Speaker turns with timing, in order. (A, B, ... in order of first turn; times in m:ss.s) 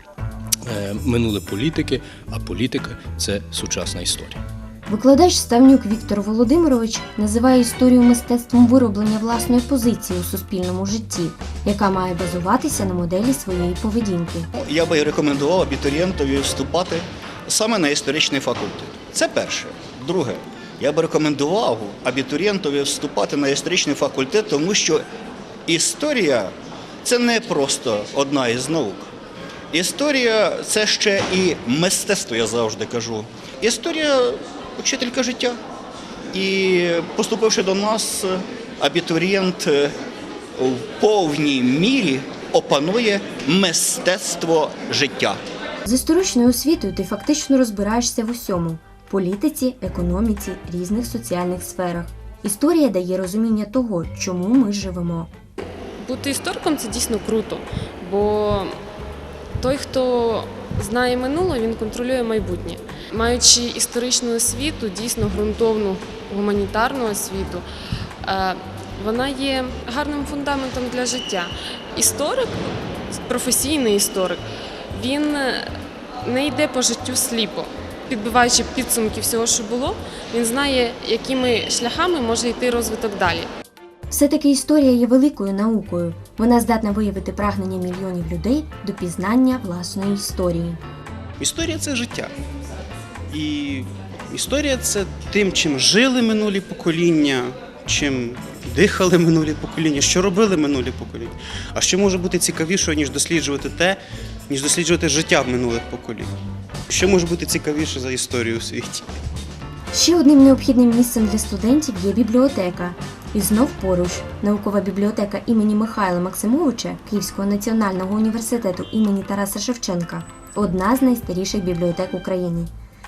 0:00.6-0:04.4 A
0:04.9-0:14.5 B
0:14.5-0:25.0 C
0:25.7-0:29.1 C
0:29.7-0:35.6 C
0:36.3-0:39.9 C
0:40.6-0:45.4 C
0:45.8-0:55.3 B
0:56.0-0:58.7 D
0:59.6-1:07.6 D
1:08.2-1:12.6 D
1:13.1-1:15.7 D
1:16.2-1:23.5 D
1:24.1-1:30.8 B
1:31.4-1:32.3 E
1:33.3-1:44.0 E
1:44.5-1:46.3 E
1:46.9-1:49.0 E
1:49.9-2:02.7 B